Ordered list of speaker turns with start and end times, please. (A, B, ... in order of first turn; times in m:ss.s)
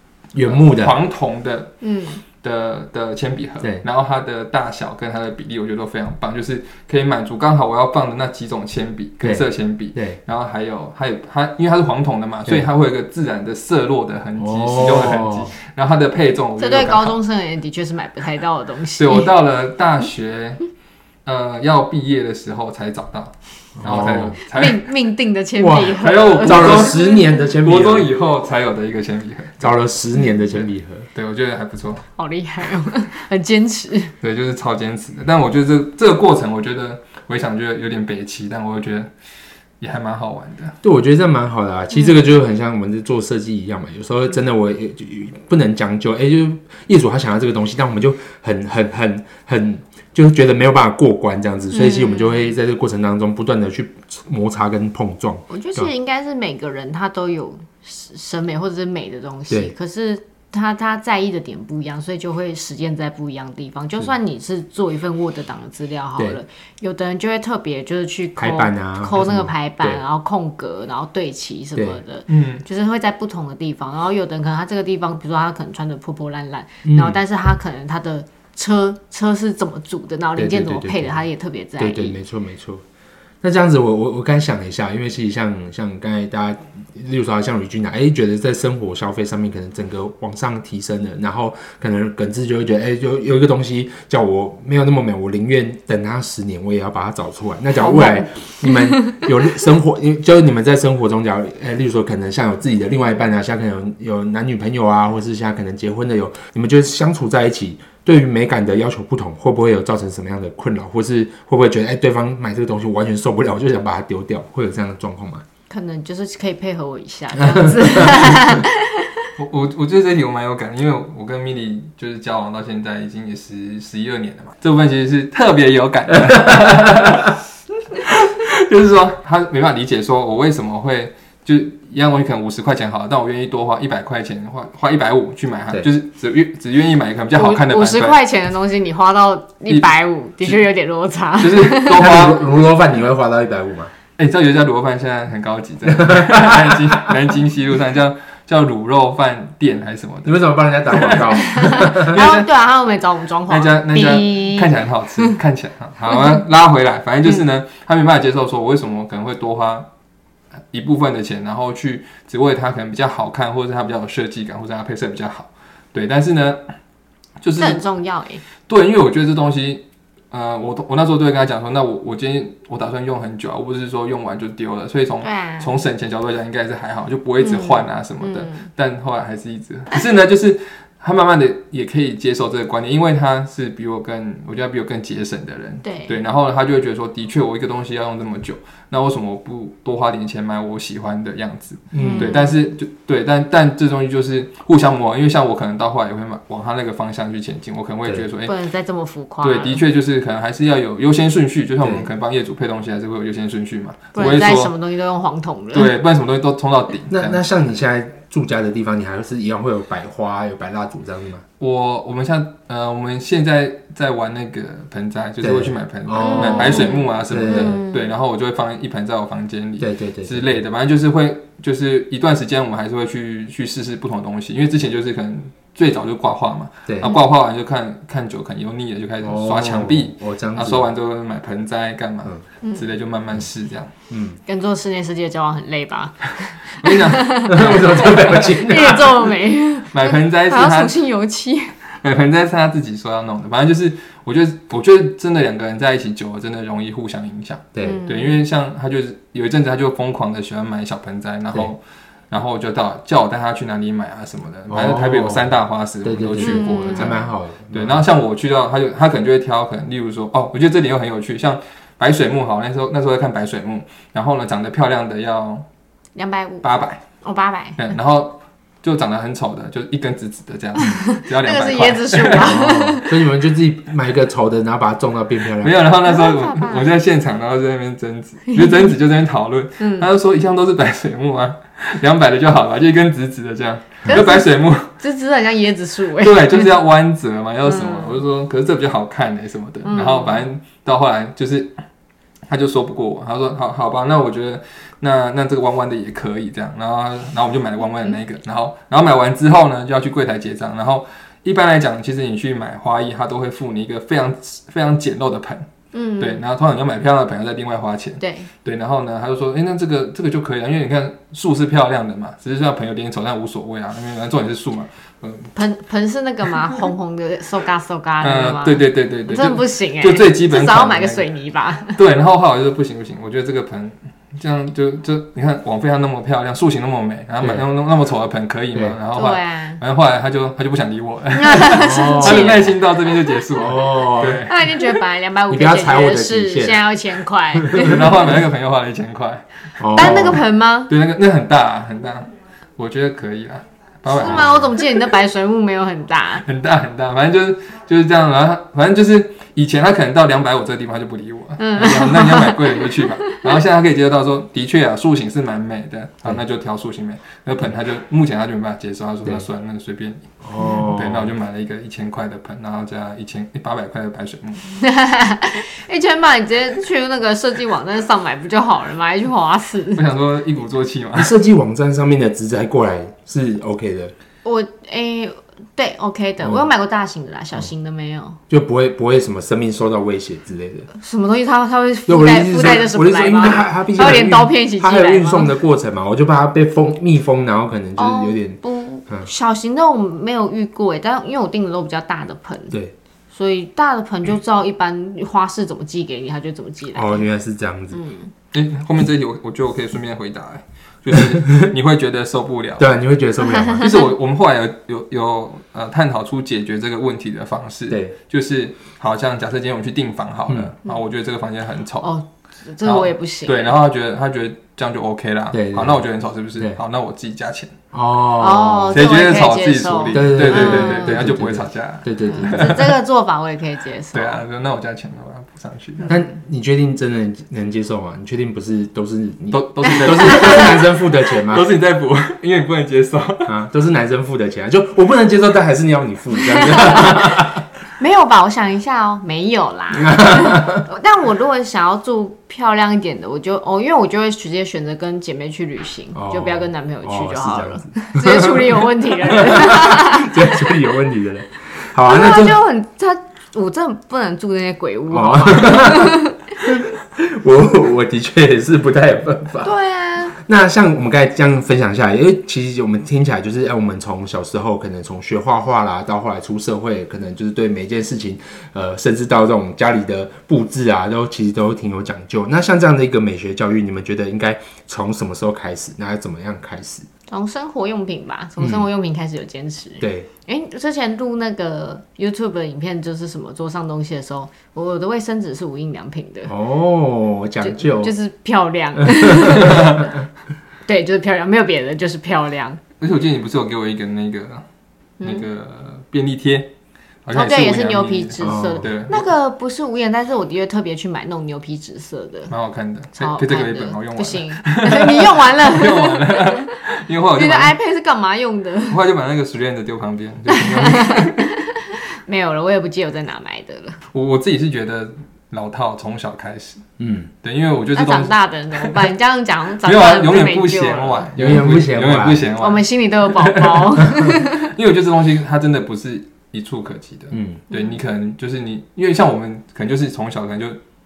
0:00.3-0:01.0 A
0:00.4-0:01.8 B
0:01.8-0:02.2 C
0:02.4-0:17.2 B
0:09.2-0:10.2 A
0:14.4-0:15.5 A
0:16.6-0:19.3 C
0:19.0-0:20.6 B
0:21.2-0:24.9 B
0:23.8-0:24.4 A
0:24.4-0:27.0 C
0:25.6-0:28.1 A
0:26.0-0:29.7 B
0:29.6-0:31.1 A
0:30.3-0:32.0 B
0:32.2-0:34.1 C
0:34.2-0:39.1 B
0:39.8-0:40.8 B
0:40.8-0:55.9 A
0:51.7-0:52.5 C
0:55.5-1:22.2 C
1:08.4-1:10.0 A
1:12.3-1:12.6 B
1:16.8-1:17.2 A
1:20.4-1:21.2 A
1:21.8-1:22.8 A
1:23.4-1:55.4 A
1:37.8-1:39.2 C
1:55.7-1:59.3 C
1:57.5-1:58.1 A
1:58.3-1:58.6 B
1:59.4-2:07.4 B
2:07.9-2:18.2 B
2:17.3-2:22.2 C
2:19.7-2:20.6 B
2:21.4-2:22.5 B
2:21.9-2:23.9 A
2:24.2-2:32.5 B
2:25.9-2:27.1 A
2:30.2-2:32.2 A
2:31.3-2:35.3 C
2:33.5-2:39.9 B
2:40.7-2:46.6 B
2:47.4-2:47.8 B
2:47.6-2:48.4 C
2:48.7-3:18.6 B
2:55.2-2:55.8 C
2:57.4-2:58.7 C
3:05.8-3:06.2 C
3:11.9-3:12.3 A
3:12.0-3:12.6 C
3:18.4-3:19.8 C
3:19.4-3:24.7 B
3:21.8-3:22.1 A
3:24.1-3:25.9 C
3:25.7-3:27.4 B
3:27.1-3:31.4 A
3:31.6-3:53.9 B
3:35.4-3:37.8 A
3:36.2-3:38.1 C
3:39.8-3:40.6 A
3:46.9-3:47.2 A
3:49.2-3:50.9 A
3:52.6-3:52.9 C
3:54.1-3:54.4 A
3:54.5-4:01.7 C
3:56.8-3:58.8 B
3:57.5-3:59.2 A
3:59.9-4:01.0 B
4:02.0-4:11.8 B
4:07.7-4:08.0 A
4:07.8-4:08.4 C
4:12.3-4:25.6 B
4:14.7-4:15.5 A
4:16.0-4:18.0 A
4:16.4-4:17.2 C
4:26.2-4:26.7 C
4:26.6-4:27.0 B
4:27.2-4:27.8 C
4:27.8-4:32.6 B
4:30.8-4:33.2 C
4:32.4-4:35.8 A
4:35.6-4:44.9 B
4:36.0-4:36.9 C
4:38.5-4:38.9 C
4:39.8-4:40.1 C
4:44.1-4:46.8 C
4:46.2-4:51.8 B
4:47.6-4:48.2 C
4:49.8-4:50.4 C
4:52.5-5:05.7 B
5:05.9-5:06.4 C
5:06.2-5:15.5 B
5:08.2-5:08.5 C
5:15.6-5:22.0 C
5:18.2-5:21.3 B
5:21.9-5:35.0 B
5:28.7-5:29.0 A
5:29.1-5:29.8 C
5:31.4-5:32.8 C
5:31.7-5:32.7 A
5:33.5-5:34.4 A
5:34.4-5:38.2 C
5:35.5-5:36.8 A
5:37.6-5:38.0 A
5:37.7-5:44.7 B
5:39.8-5:40.4 A
5:39.9-5:40.9 C
5:44.1-5:46.4 C
5:44.2-5:44.7 A
5:46.4-6:00.3 B
5:51.6-5:53.6 C
6:00.4-6:01.3 A
6:00.8-6:04.6 B
6:04.7-6:10.0 C
6:10.0-6:11.3 B
6:11.2-6:14.1 A
6:14.4-6:18.4 C
6:18.5-6:20.9 A
6:20.9-6:25.5 C
6:22.1-6:29.3 A
6:28.0-6:32.8 C
6:33.3-6:37.2 C
6:36.9-6:38.0 A
6:37.9-6:38.3 C
6:38.5-6:42.9 B
6:42.8-6:44.0 A
6:43.4-6:44.1 C
6:43.8-6:52.1 B
6:47.9-6:48.1 A
6:52.0-6:53.8 C
6:52.8-6:57.7 B
6:55.5-6:56.0 A
6:57.9-6:59.1 A
6:58.4-7:01.4 C
6:58.9-7:03.0 B
7:00.1-7:02.7 A
7:02.2-7:04.4 C
7:04.1-7:06.1 B
7:06.1-7:11.7 A
7:09.5-7:13.5 B
7:09.8-7:10.8 C
7:13.5-7:17.6 A
7:16.4-7:17.5 C
7:18.0-7:30.7 C
7:20.0-7:20.8 A
7:26.2-7:32.6 A
7:32.0-7:36.5 C
7:35.1-7:39.7 A
7:39.6-7:40.4 C
7:40.3-7:57.1 A
7:57.3-8:06.5 C
7:58.6-7:58.9 A
8:00.0-8:00.3 A
8:06.5-8:08.2 A
8:07.6-8:10.1 C
8:09.0-8:10.1 A
8:09.5-8:10.1 B
8:10.9-8:12.8 C
8:13.0-8:14.6 B
8:15.2-8:15.5 C
8:15.2-8:16.7 B
8:17.2-8:19.3 B
8:17.3-8:22.5 C
8:18.4-8:18.9 A
8:22.5-8:27.8 B
8:23.2-8:26.8 C
8:27.4-8:29.0 C
8:28.9-8:31.5 B
8:30.5-8:34.0 C
8:34.1-8:36.8 B
8:37.0-8:37.3 A
8:37.4-8:39.1 B
8:38.0-8:41.3 C
8:39.8-8:44.1 B
8:41.4-8:42.5 A
8:42.6-8:44.7 C
8:44.6-8:50.8 B
8:47.3-8:47.6 A
8:47.7-8:48.0 C